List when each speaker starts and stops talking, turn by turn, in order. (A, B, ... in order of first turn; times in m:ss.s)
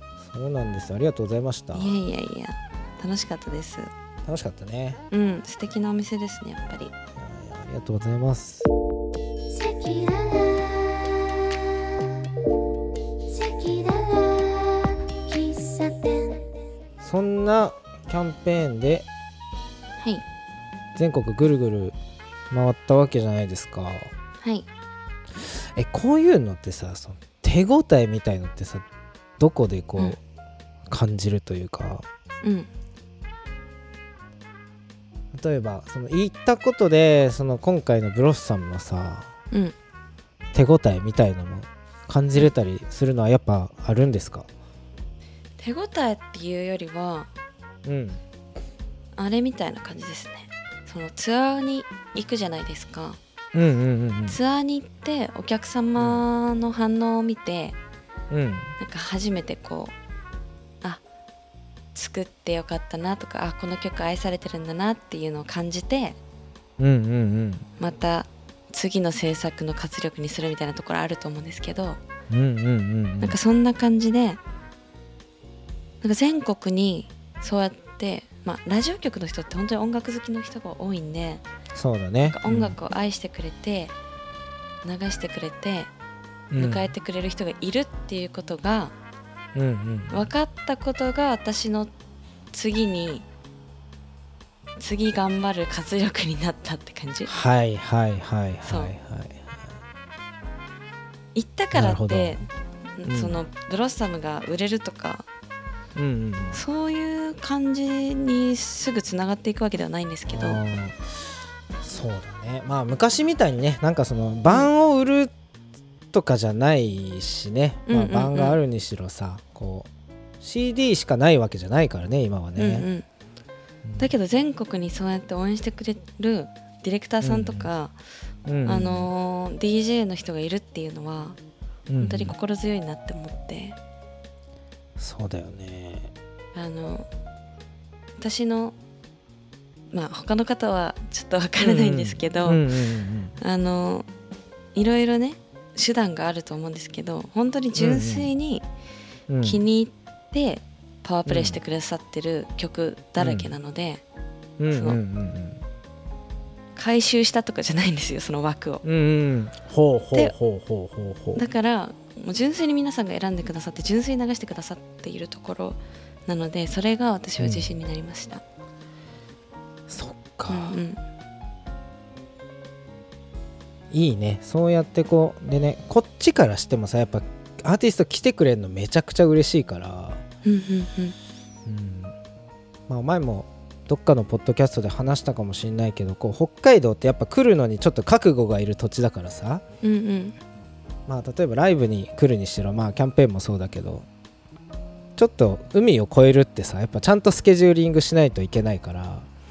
0:00.2-0:01.9 A
0:01.7-0:03.9 B
0:04.2-0:05.0 A
0:05.1-0:06.9 B
0:07.2-0:08.7 A
0:09.5-0:11.8 C
0:13.3-0:16.5 C
0:17.0-0:19.1 A
0:21.0-0:21.9 A
0:22.5-0:24.1 A
0:25.3-0:28.8 A
0:29.4-0:30.2 A
0:30.9-0:32.0 A
0:32.4-0:32.7 B
0:35.3-0:39.3 A
0:40.5-0:44.5 A
0:45.6-0:47.3 B
0:47.8-0:48.2 A
0:49.2-0:53.2 B
0:53.5-0:54.4 A
0:54.3-0:57.8 B
0:56.0-0:56.2 A
0:58.3-0:58.7 A
0:58.8-0:59.9 B
1:01.9-1:06.2 B
1:06.8-1:07.6 A
1:07.8-1:12.0 B
1:12.3-1:13.4 A
1:13.2-1:14.4 B
1:16.0-1:21.4 B
1:21.7-1:22.8 A
1:22.3-1:23.9 B
1:24.8-1:25.9 B
1:26.5-1:26.8 A
1:26.6-1:28.9 B
1:29.5-1:30.2 A
1:30.1-1:31.9 B
1:32.5-1:33.2 B
1:34.8-1:37.3 B
1:37.3-1:39.6 A
1:38.6-1:38.9 B
1:41.3-1:42.5 B
1:41.7-1:42.4 A
1:43.0-1:45.2 B
1:43.0-1:43.4 A
1:45.9-1:46.6 A
1:46.5-1:50.6 B
1:50.3-1:51.2 A
1:51.8-1:55.3 A
1:56.1-1:59.9 A
1:57.9-1:58.6 B
2:00.4-2:02.8 A
2:02.6-2:03.0 B
2:03.8-2:04.1 A
2:04.0-2:08.0 B
2:07.2-2:07.7 A
2:08.4-2:09.1 A
2:08.6-2:11.4 B
2:11.9-2:12.3 A
2:12.0-2:13.8 B
2:15.0-2:16.1 A
2:16.5-2:17.1 B
2:18.2-2:18.7 B
2:19.9-2:22.7 B
2:21.6-2:23.3 A
2:23.4-2:24.1 B
2:24.7-2:28.6 B
2:27.8-2:28.3 A
2:29.3-2:29.6 A
2:29.4-2:34.0 B
2:31.2-2:31.6 A
2:33.2-2:33.5 A
2:34.6-2:35.6 A
2:34.7-2:35.0 B
2:36.8-2:38.8 B
2:38.8-2:41.4 A
2:41.3-2:48.4 B
2:47.4-2:47.7 A
2:49.9-2:50.8 A
2:50.5-2:51.0 B
2:53.9-3:00.2 A
3:00.4-3:01.2 B
3:01.6-3:02.1 A
3:02.9-3:09.6 A
3:09.8-3:10.4 B
3:11.1-3:14.1 A
3:15.2-3:19.3 A